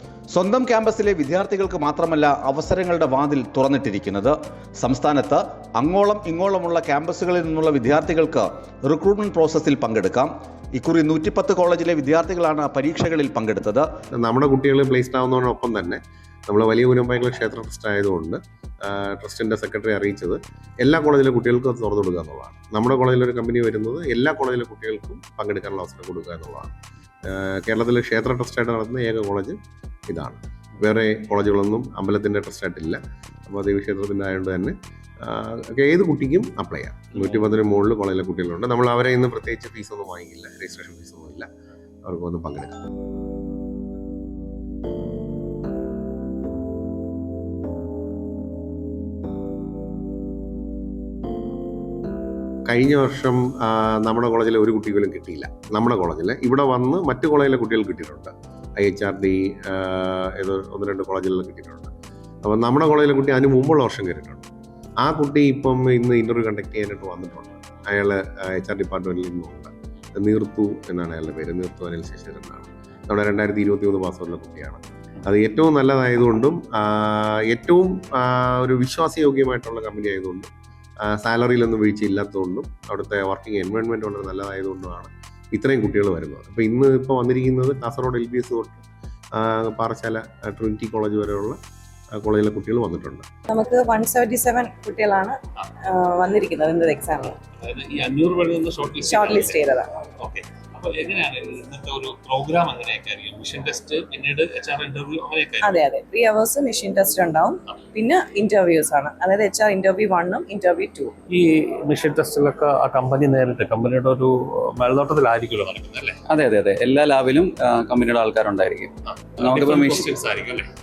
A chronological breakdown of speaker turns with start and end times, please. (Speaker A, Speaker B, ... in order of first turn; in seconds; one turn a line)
Speaker A: 0.3-13.9
Speaker B: 14.1-26.7
Speaker B: 27.2-29.6
Speaker B: 30.1-41.5
Speaker B: 42.0-42.7
Speaker B: 52.7-61.9
Speaker B: 62.4-64.4
Speaker B: 65.0-80.5
Speaker B: 81.0-88.8
Speaker B: 89.3-91.6
Speaker B: 92.2-93.2
Speaker C: 93.5-97.4
Speaker D: 97.5-105.8
Speaker C: 99.0-100.0
Speaker C: 105.6-111.1
Speaker D: 111.3-116.2
Speaker E: 116.3-120.2
Speaker D: 119.4-120.7